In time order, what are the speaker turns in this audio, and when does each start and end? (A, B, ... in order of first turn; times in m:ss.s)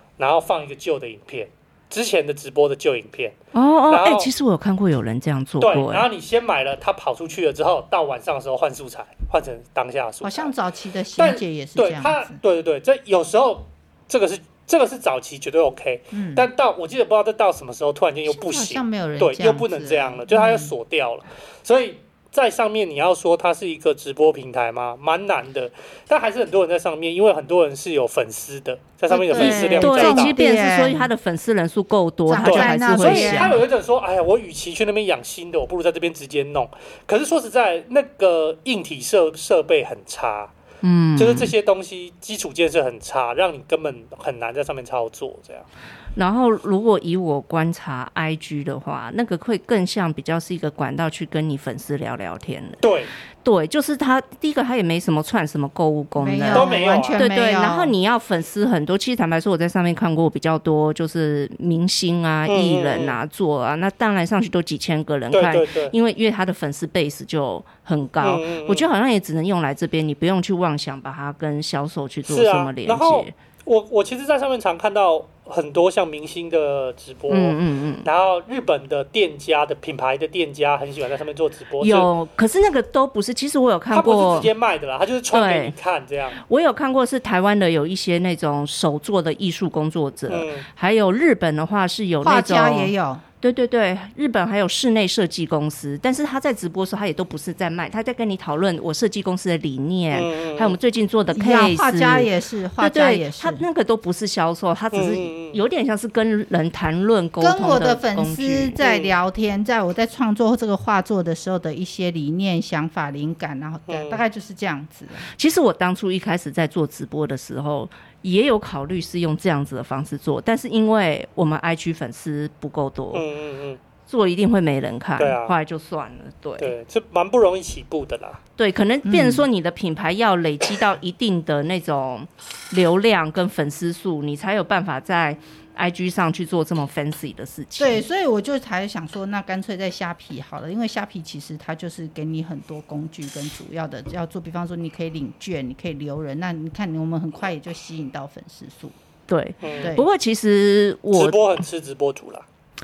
0:00.2-0:03.4 A
0:03.5-0:06.1 B
0:03.9-0:04.3 A
0:05.6-0:10.5 A
0:10.2-0:12.4 C
0:11.2-0:30.3 A
0:16.1-0:16.4 C
0:18.3-0:20.7 C
0:29.1-0:31.1 C
0:29.3-0:33.6 B
0:32.3-0:33.6 C
0:32.4-0:40.5 A
0:40.8-0:41.5 B
0:41.2-0:45.7 A
0:46.2-0:52.8 B
0:52.8-0:53.1 A
0:53.4-1:13.3 B
0:56.2-0:57.9 C
0:56.5-0:57.2 A
1:02.5-1:03.2 A
1:05.3-1:05.9 A
1:08.2-1:08.8 A
1:12.2-1:22.1 A
1:17.3-1:18.1 B
1:21.8-1:24.5 B
1:23.9-1:26.4 A
1:25.3-1:25.7 B
1:26.4-1:48.8 B
1:30.3-1:30.6 A
1:32.2-1:33.2 C
1:40.1-1:40.8 A
1:41.3-1:43.6 C
1:44.9-1:45.6 A
1:47.4-1:55.2 C
1:48.8-1:49.2 A
1:53.9-1:54.2 A
1:55.2-2:03.2 B
2:03.1-2:03.8 A
2:04.1-2:06.7 B
2:05.2-2:05.5 A
2:06.6-2:08.4 A
2:08.6-2:18.0 B
2:09.0-2:09.4 C
2:17.8-2:29.0 C
2:29.3-2:31.4 B
2:29.6-2:29.9 A
2:29.8-2:30.0 C
2:31.1-2:32.4 A